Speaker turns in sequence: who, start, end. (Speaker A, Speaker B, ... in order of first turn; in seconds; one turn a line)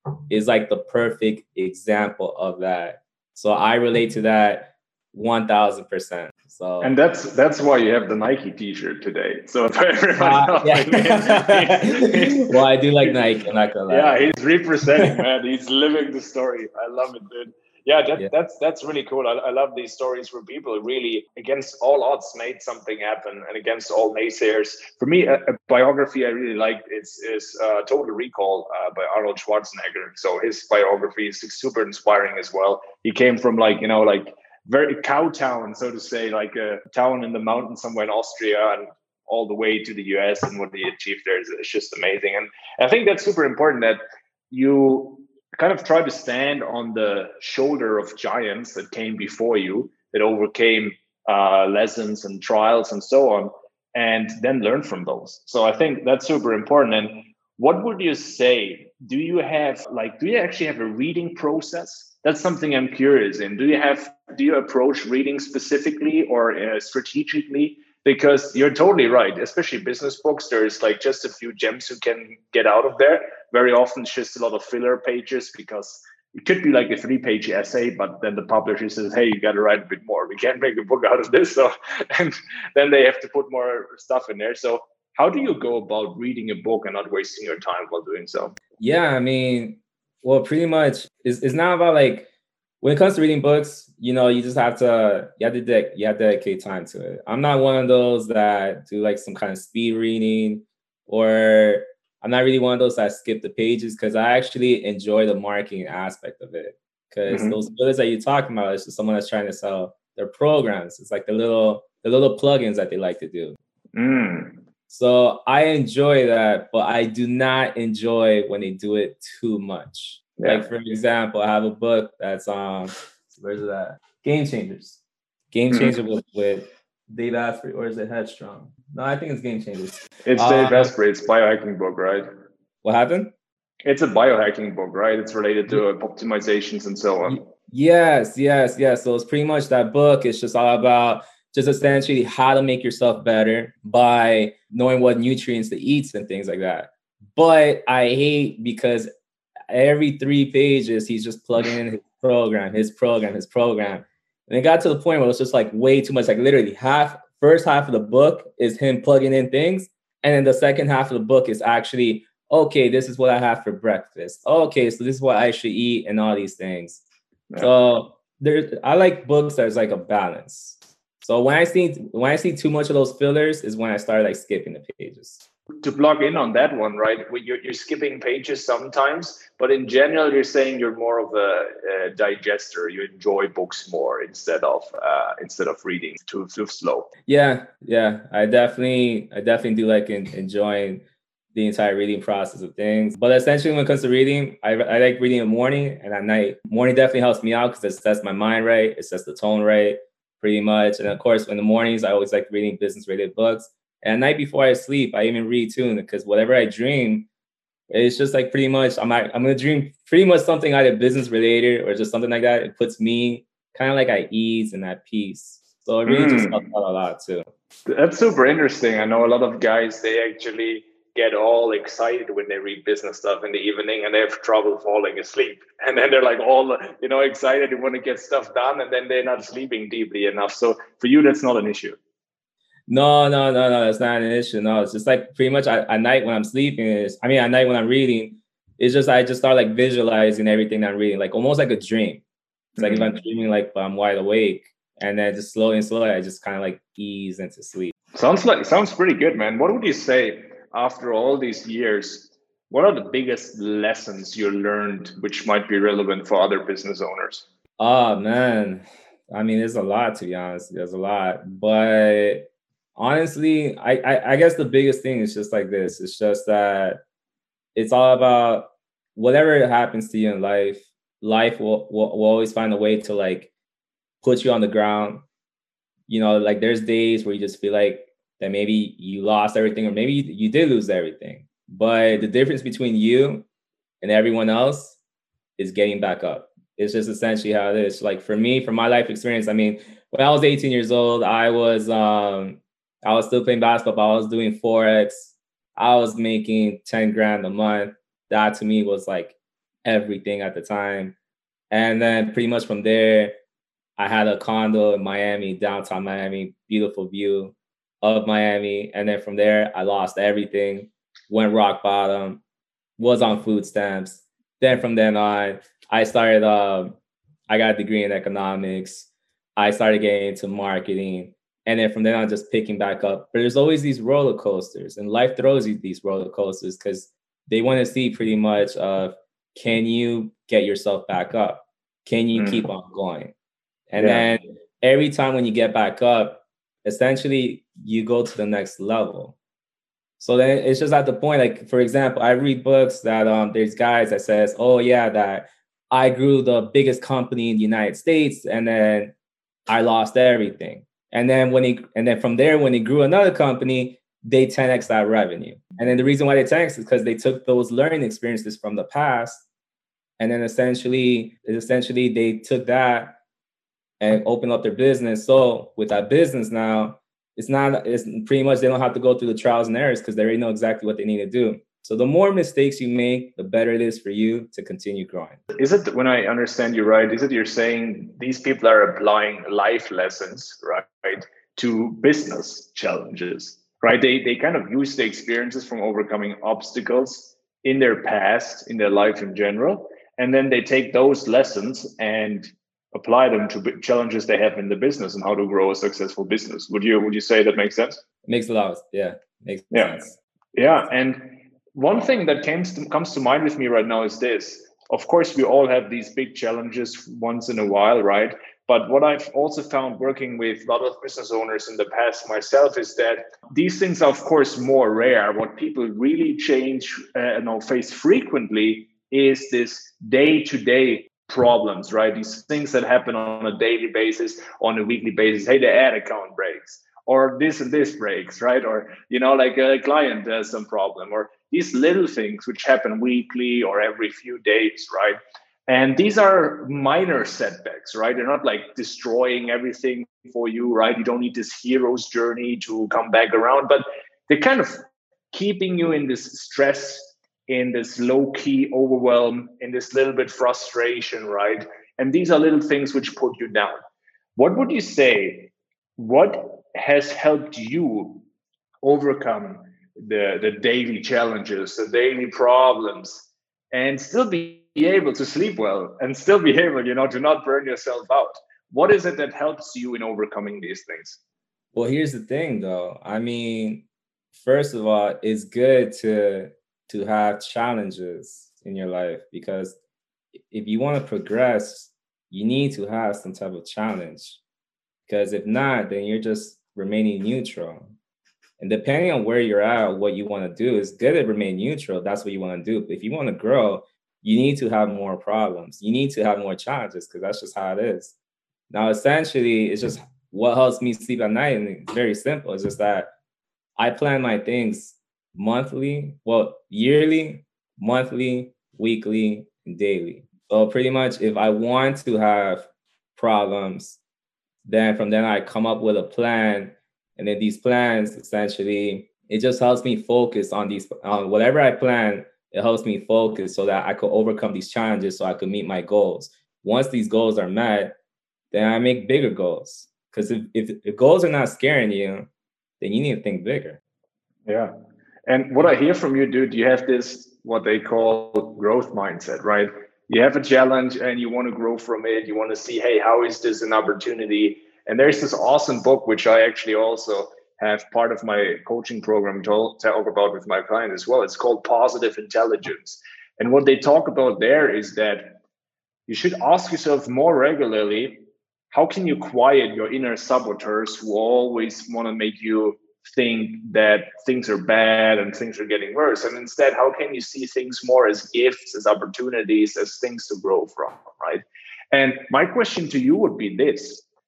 Speaker A: 0.3-6.9
Speaker B: 6.8-13.1
Speaker A: 10.2-14.3
Speaker B: 13.9-44.0
Speaker B: 44.5-88.5
Speaker A: 88.8-92.3
Speaker A: 92.8-113.6
Speaker B: 107.3-107.6
Speaker B: 114.0-114.6
Speaker A: 114.9-125.0
Speaker B: 120.4-120.7
Speaker A: 125.5-130.9
Speaker B: 125.7-126.0
Speaker B: 130.2-132.3
Speaker A: 132.8-133.3
Speaker B: 133.8-137.4
Speaker A: 137.2-149.1
Speaker A: 149.7-167.0
Speaker A: 167.6-175.4
Speaker B: 175.8-187.1
Speaker A: 187.3-191.0
Speaker A: 191.6-207.3
Speaker A: 207.9-217.5
Speaker B: 216.1-216.6
Speaker B: 217.9-232.0
Speaker A: 232.9-242.2
Speaker B: 242.8-243.1
Speaker A: 242.8-247.9
Speaker B: 248.2-257.5
Speaker A: 257.8-267.0
Speaker A: 267.8-273.5
Speaker A: 274.2-275.2
Speaker A: 276.1-283.5
Speaker A: 284.0-285.0
Speaker A: 285.6-301.1
Speaker A: 301.7-303.3
Speaker A: 304.0-312.4
Speaker A: 313.0-316.9
Speaker A: 317.5-333.3
Speaker B: 332.4-332.7
Speaker A: 333.9-339.4
Speaker B: 334.0-334.3
Speaker A: 340.2-349.1
Speaker A: 349.7-359.4
Speaker A: 360.2-363.2
Speaker A: 364.0-375.4
Speaker B: 375.5-398.0
Speaker A: 398.3-400.2
Speaker B: 399.7-400.0
Speaker B: 400.6-453.8
Speaker B: 454.4-458.2
Speaker B: 458.8-471.2
Speaker A: 471.7-479.8
Speaker A: 480.5-484.4
Speaker A: 485.1-487.9
Speaker A: 488.6-498.1
Speaker A: 498.7-503.1
Speaker A: 503.8-514.0
Speaker A: 514.7-528.0
Speaker A: 528.5-532.3
Speaker A: 532.8-533.8
Speaker B: 534.5-534.7
Speaker B: 535.3-555.4
Speaker B: 556.1-574.0